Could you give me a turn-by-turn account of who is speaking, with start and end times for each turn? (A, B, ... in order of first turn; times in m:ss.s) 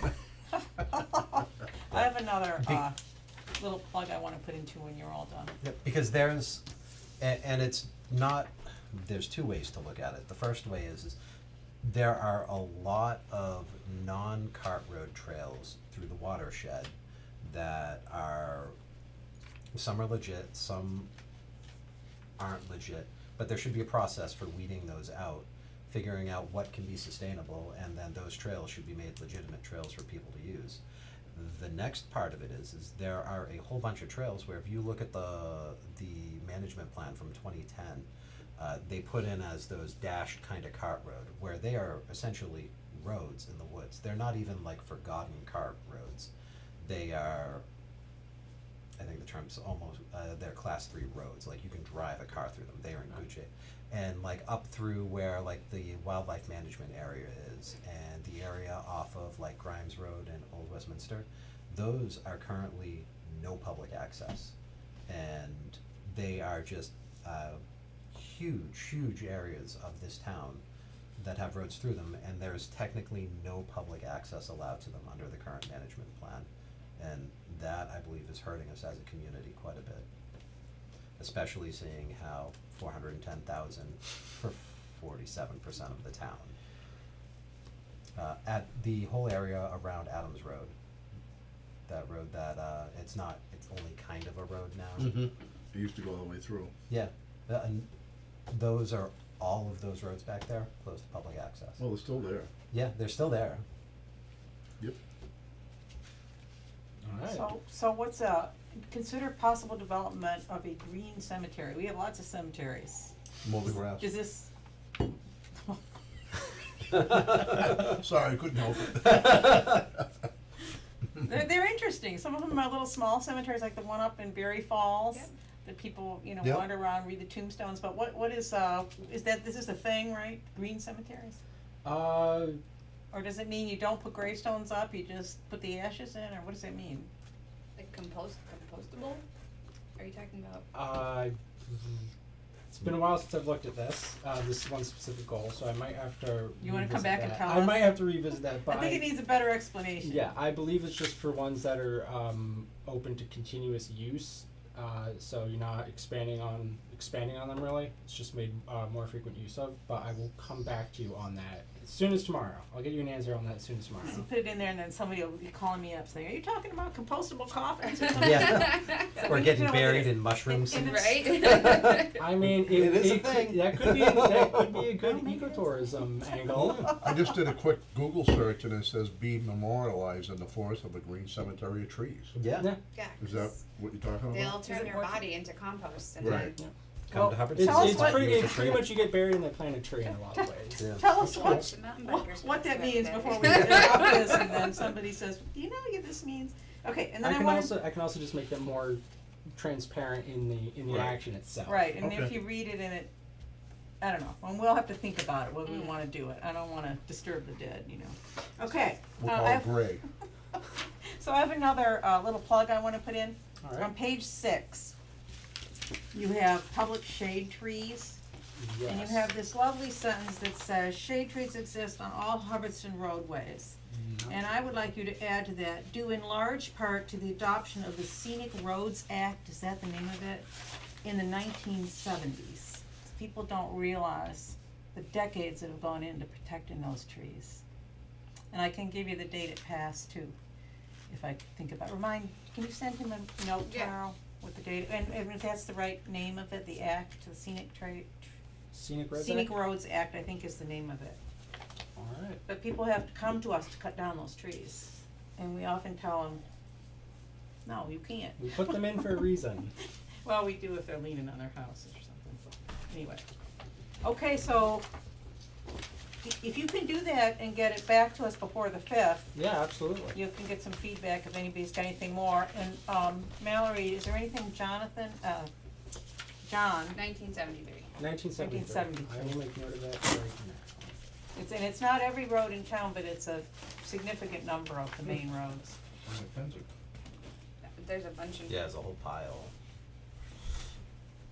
0:00.9-0:03.0 A
0:01.9-0:02.8 B
0:03.6-0:05.5 A
0:05.6-0:06.6 B
0:07.2-0:11.2 B
0:11.8-0:18.8 B
0:19.7-0:21.1 B
0:22.4-0:38.1 B
0:38.6-0:47.6 B
0:49.0-1:04.5 B
1:05.1-1:07.6 B
1:08.1-1:10.6 B
1:11.2-1:20.0 B
1:21.2-1:26.5 B
1:28.1-1:30.7 B
1:31.9-1:35.2 B
1:35.0-1:36.7 C
1:36.9-1:37.9 B
1:38.5-1:41.8 B
1:41.8-1:42.5 C
1:42.7-1:43.6 B
1:47.0-1:47.5 D
1:47.3-1:53.1 A
1:53.4-1:54.1 C
1:54.0-1:54.5 A
1:57.1-2:00.0 C
2:01.2-2:11.4 A
2:06.4-2:06.7 C
2:11.8-2:12.6 D
2:13.1-2:17.1 A
2:17.8-2:19.2 E
2:20.0-2:20.6 E
2:20.7-2:22.1 D
2:22.7-2:29.1 D
2:26.6-2:30.3 A
2:30.0-2:44.2 D
2:44.0-2:51.6 A
2:48.1-2:54.9 B
2:48.7-2:49.3 E
2:50.8-2:52.2 E
2:52.1-2:57.0 D
2:55.0-2:55.6 A
2:57.0-3:02.4 C
3:02.3-3:02.7 B
3:02.9-3:03.6 E
3:03.2-3:04.7 C
3:04.3-3:06.6 E
3:04.6-3:05.2 A
3:06.2-3:06.5 C
3:06.2-3:10.9 D
3:07.1-3:09.1 B
3:07.1-3:08.7 A
3:10.8-3:17.7 A
3:10.8-3:11.1 B
3:11.3-3:11.6 C
3:11.4-3:14.4 E
3:17.2-3:21.9 D
3:21.6-3:23.1 A
3:22.0-3:22.4 C
3:24.0-3:29.8 A
3:29.2-3:30.0 C
3:31.0-3:34.9 A
3:33.6-3:33.9 D
3:36.1-3:38.2 A
3:38.6-3:39.3 D
3:38.8-3:50.5 A
3:43.9-3:44.4 D
3:51.0-3:57.6 A
3:58.5-4:00.4 A
4:01.1-4:08.2 A
4:03.6-4:03.9 E
4:08.7-4:09.5 D
4:09.1-4:11.2 A
4:12.0-4:12.4 D
4:12.4-4:16.4 A
4:17.6-4:18.4 A
4:18.4-4:19.7 D
4:20.2-4:23.2 A
4:24.0-4:24.8 A
4:26.2-4:29.3 A
4:29.3-4:30.2 D
4:30.1-4:35.5 A
4:36.4-4:37.0 A
4:36.9-4:37.9 E
4:38.0-4:40.7 D
4:38.4-4:39.4 A
4:41.3-4:45.8 A
4:46.0-4:46.7 C
4:47.7-4:48.6 E
4:48.5-4:49.5 B